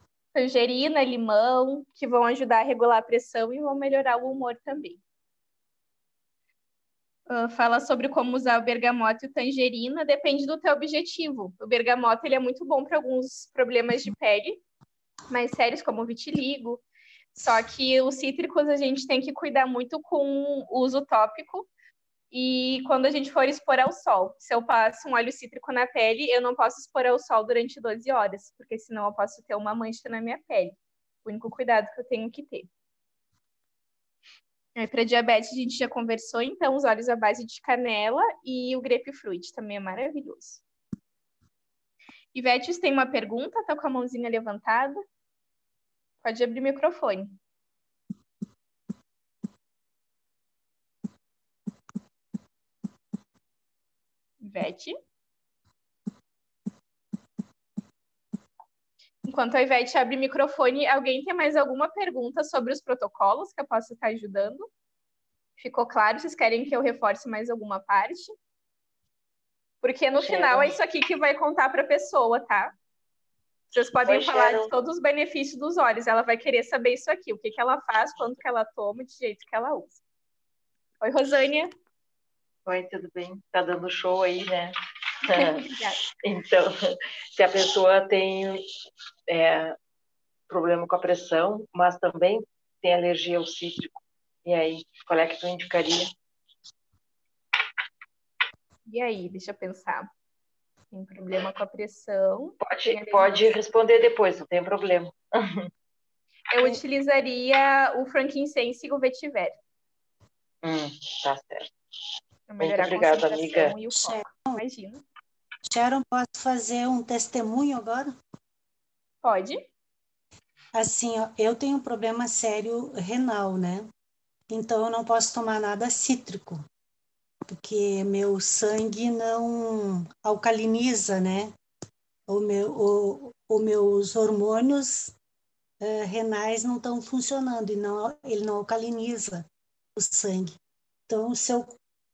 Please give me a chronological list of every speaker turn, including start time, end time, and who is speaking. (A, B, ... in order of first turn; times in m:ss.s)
0:00.3-0:05.0 A
0:07.3-0:14.6 A
0:15.3-0:16.8 A
0:17.4-0:21.7 A
0:22.3-0:32.7 A
0:34.8-0:40.6 A
0:42.3-0:45.0 A
0:46.2-0:47.4 A
0:54.4-0:55.0 A
0:59.2-1:04.7 A
1:05.6-1:08.3 A
1:09.8-1:12.7 A
1:10.2-1:10.8 B
1:13.7-1:20.0 A
1:14.1-1:14.7 B
1:21.0-1:21.7 A
1:22.7-1:24.7 B
1:25.3-1:25.7 B
1:25.3-1:26.0 A
1:26.2-1:28.6 B
1:29.3-1:29.8 B
1:30.5-1:36.1 B
1:38.9-1:40.1 A
1:40.9-1:43.4 A
1:42.6-1:45.6 B
1:46.5-1:49.6 A
1:50.6-1:51.7 B
1:52.5-1:55.0 A
1:52.6-1:53.8 B
1:53.9-1:54.6 C
1:55.7-1:58.2 C
1:59.2-1:59.6 A
2:00.7-2:03.9 C
2:04.5-2:06.6 C
2:07.5-2:11.5 C
2:12.3-2:15.2 C
2:15.8-2:20.6 C
2:21.1-2:21.8 C